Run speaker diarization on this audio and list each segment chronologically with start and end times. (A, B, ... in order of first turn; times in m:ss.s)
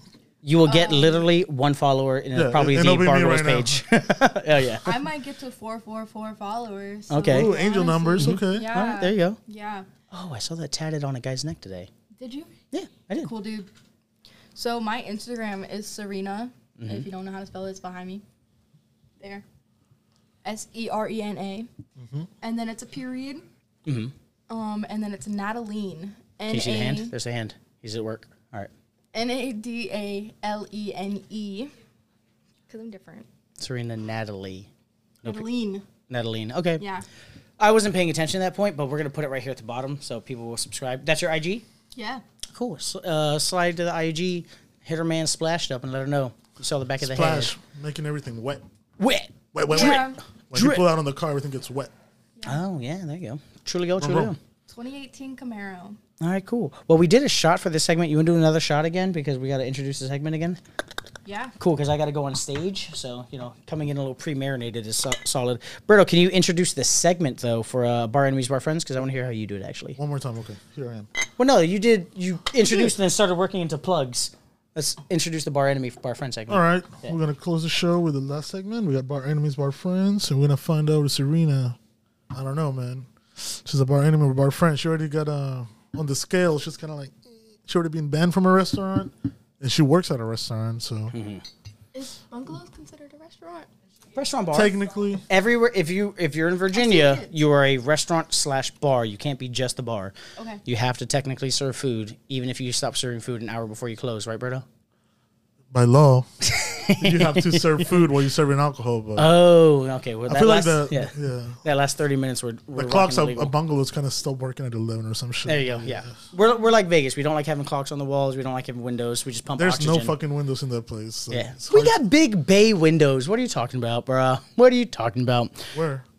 0:00.4-0:04.9 A
0:00.6-0:01.3 B
0:02.3-0:03.8 C
0:04.8-0:09.9 B
0:07.1-0:07.5 A
0:07.3-0:08.7 C
0:08.2-0:09.4 A
0:10.1-0:11.9 A
0:12.2-0:12.5 B
0:12.7-0:13.3 A
0:13.2-0:13.7 B
0:14.5-0:18.2 B
0:16.8-0:17.0 A
0:19.2-0:19.4 B
0:20.4-0:21.7 B
0:22.0-0:22.3 C
0:22.4-0:23.4 B
0:23.8-0:24.1 A
0:24.5-0:27.1 B
0:26.5-0:28.7 A
0:29.1-0:31.7 B
0:32.7-0:33.3 B
0:33.6-0:34.7 A
0:35.2-0:35.8 B
0:36.1-0:36.8 A
0:36.8-0:37.0 B
0:37.6-0:41.6 A
0:41.9-0:42.2 B
0:42.5-0:47.5 A
0:47.0-0:48.6 C
0:49.0-0:50.9 A
0:49.5-0:51.9 C
0:49.7-0:50.2 B
0:52.4-0:54.4 A
0:54.0-0:54.3 C
0:54.7-0:56.0 B
0:56.2-1:00.6 A
1:01.2-1:01.5 B
1:01.6-1:10.0 A
1:10.0-1:11.1 C
1:11.4-1:17.1 A
1:16.5-1:21.8 C
1:22.3-1:31.1 C
1:31.1-1:31.4 A
1:31.9-1:33.7 B
1:34.1-1:34.7 A
1:34.5-1:35.2 C
1:35.3-1:44.6 A
1:36.7-1:37.3 B
1:40.4-1:40.6 B
1:45.7-1:46.3 C
1:46.4-1:48.0 A
1:47.0-1:49.3 C
1:49.2-1:53.5 A
1:50.3-1:51.6 C
1:52.7-1:56.2 C
1:55.4-2:00.1 A
1:59.6-2:02.0 C
2:01.3-2:05.7 A
2:05.7-2:06.0 C